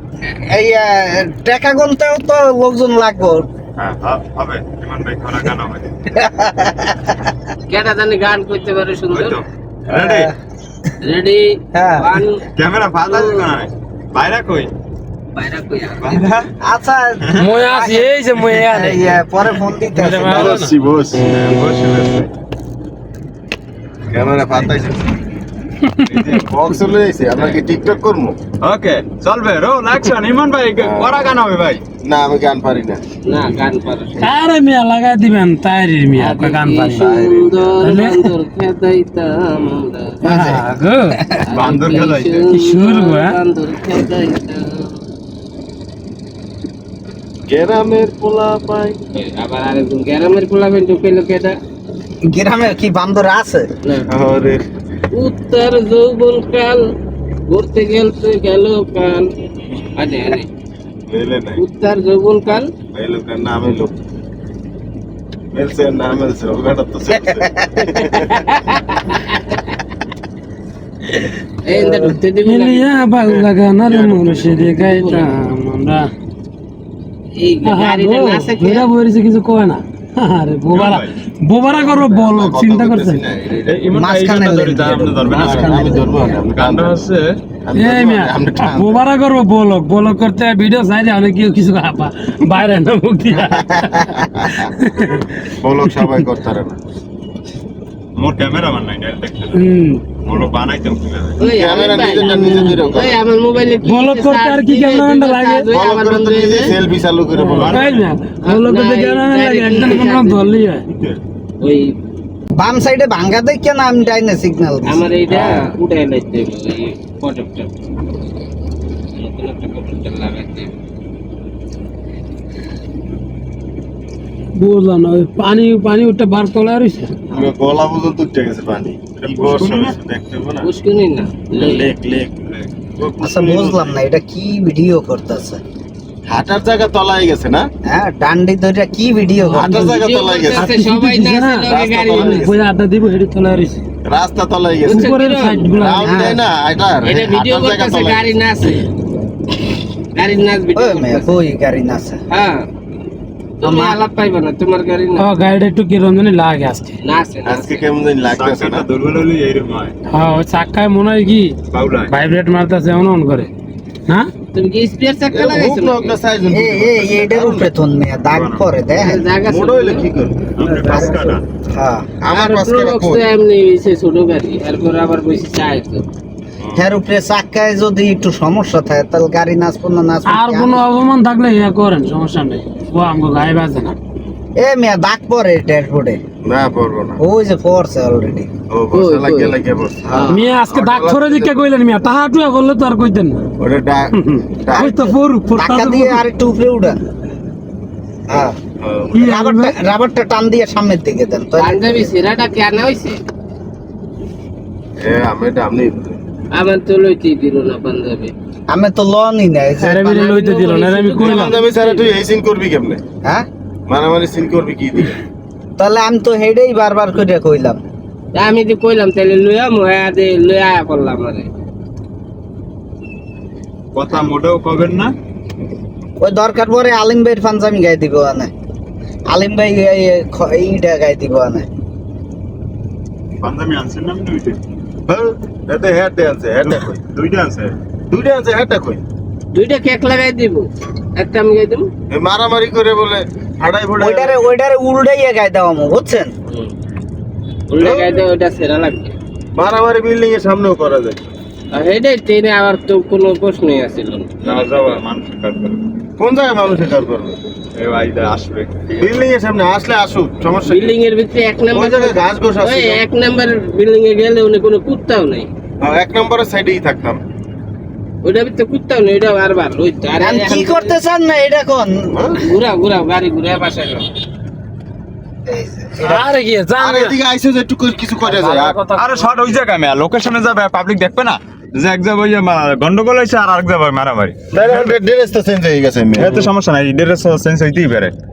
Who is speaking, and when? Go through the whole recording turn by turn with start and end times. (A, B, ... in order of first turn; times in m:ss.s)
0:00.3-0:03.5 A
0:03.8-0:05.9 B
0:06.1-0:07.3 A
0:07.7-0:09.4 C
0:09.1-0:10.3 B
0:09.9-0:10.3 A
0:11.0-0:12.5 C
0:11.7-0:12.1 A
0:12.6-0:14.7 B
0:13.0-0:13.4 C
0:15.3-0:16.4 C
0:16.0-0:16.5 B
0:16.6-0:20.6 A
0:17.4-0:19.1 D
0:19.9-0:20.8 D
0:20.1-0:21.2 E
0:21.3-0:22.3 B
0:24.1-0:25.1 E
0:25.9-0:26.4 D
0:26.0-0:26.5 B
0:26.4-0:28.4 E
0:28.6-0:31.8 B
0:30.8-0:31.3 E
0:32.0-0:33.0 E
0:33.2-0:34.3 C
0:34.2-0:37.2 D
0:36.2-0:40.2 C
0:37.0-0:37.7 E
0:37.8-0:38.3 D
0:40.2-0:40.6 A
0:40.2-0:41.2 D
0:41.5-0:44.9 C
0:41.5-0:42.5 B
0:42.5-0:43.4 D
0:47.5-0:49.0 E
0:49.1-0:51.6 C
0:52.3-0:53.7 A
0:54.1-0:54.6 E
0:55.1-0:56.9 C
0:57.5-0:59.3 C
0:59.9-1:00.5 C
1:01.1-1:01.6 E
1:01.6-1:02.7 C
1:02.9-1:04.0 E
1:05.5-1:08.3 E
1:08.1-1:09.6 C
1:11.6-1:12.9 C
1:11.7-1:12.1 A
1:12.4-1:16.1 D
1:13.2-1:14.8 E
1:14.8-1:15.3 C
1:17.4-1:18.9 C
1:17.6-1:23.2 D
1:20.7-1:21.1 B
1:21.6-1:23.8 E
1:23.7-1:27.4 B
1:23.9-1:26.2 A
1:25.2-1:27.0 E
1:27.6-1:29.0 E
1:27.7-1:35.3 D
1:33.5-1:34.7 E
1:35.6-1:36.8 E
1:35.9-1:36.1 D
1:38.2-1:39.6 B
1:39.5-1:40.0 D
1:40.2-1:41.4 B
1:41.4-1:46.7 C
1:41.4-1:43.2 E
1:42.2-1:42.7 D
1:43.9-1:45.7 D
1:45.7-1:47.9 E
1:47.4-1:50.8 D
1:47.6-1:48.0 B
1:48.4-1:50.6 C
1:51.6-1:52.0 C
1:52.6-1:55.1 A
1:54.9-1:57.7 C
1:55.3-1:55.6 E
1:59.1-2:00.7 C
2:04.6-2:07.1 D
2:07.3-2:10.7 E
2:09.2-2:10.0 B
2:10.6-2:11.9 C
2:11.5-2:12.3 E
2:12.4-2:12.7 B
2:13.0-2:13.9 E
2:13.2-2:15.6 A
2:16.3-2:17.7 E
2:17.9-2:19.9 A
2:19.4-2:23.8 D
2:19.5-2:20.7 E
2:19.9-2:22.5 C
2:21.7-2:22.6 E
2:24.0-2:28.3 E
2:24.8-2:25.8 C
2:24.9-2:26.3 D
2:26.0-2:26.4 A
2:27.0-2:28.8 C
2:30.2-2:31.4 C
2:30.8-2:32.2 A
2:32.3-2:32.6 C
2:33.6-2:35.3 C
2:33.6-2:34.0 A
2:35.2-2:37.0 D
2:37.0-2:37.9 C
2:37.4-2:38.8 E
2:38.2-2:39.9 B
2:40.1-2:41.5 D
2:41.7-2:42.1 B
2:42.1-2:43.5 D
2:44.5-2:46.2 C
2:45.3-2:47.7 E
2:46.5-2:49.2 A
2:48.3-2:48.7 B
2:48.9-2:50.1 C
2:49.4-2:50.5 E
2:50.5-2:51.4 B
2:50.6-2:51.2 C
2:50.9-2:52.0 A
2:52.2-2:53.2 E
2:52.3-2:56.0 C
2:56.6-2:56.9 E
2:56.8-3:00.8 A
3:00.2-3:04.0 D
3:04.6-3:06.2 A
3:06.4-3:07.2 E
3:07.2-3:08.5 A
3:08.7-3:11.6 E
3:08.9-3:09.6 C
3:10.0-3:10.4 A
3:10.2-3:13.4 D
3:13.6-3:14.9 E
3:14.1-3:16.2 D
3:14.7-3:17.0 A
3:18.3-3:18.6 A
3:18.8-3:19.2 E
3:19.1-3:19.8 D
3:19.2-3:22.1 A
3:21.6-3:23.2 C
3:25.0-3:26.2 E
3:26.5-3:28.3 C
3:28.7-3:30.2 A
3:29.8-3:31.5 D
3:30.1-3:32.1 C
3:31.2-3:33.0 E
3:33.9-3:35.2 E
3:35.8-3:37.8 A
3:38.3-3:41.5 C
3:43.9-3:45.1 B
3:46.2-3:48.5 A
3:49.3-3:51.7 A
3:53.4-3:54.6 B
3:55.1-3:57.0 E
3:56.6-3:57.7 B
3:58.1-3:59.0 E
3:59.5-4:01.9 C
4:02.1-4:04.4 E
4:04.0-4:06.3 A
4:07.7-4:09.1 C
4:07.8-4:08.0 A
4:09.5-4:11.3 E
4:11.7-4:14.6 C
4:14.4-4:15.8 B
4:16.2-4:17.4 E
4:17.8-4:19.2 B
4:19.0-4:20.9 E
4:20.6-4:25.5 C
4:21.7-4:23.0 E
4:25.8-4:27.2 E
4:28.2-4:30.9 C
4:30.2-4:32.4 A
4:32.4-4:34.1 C
4:35.4-4:36.2 A
4:36.0-4:37.2 D
4:36.8-4:38.8 E
4:38.2-4:39.5 D
4:38.9-4:44.9 B
4:44.5-4:46.4 E
4:46.2-4:48.1 B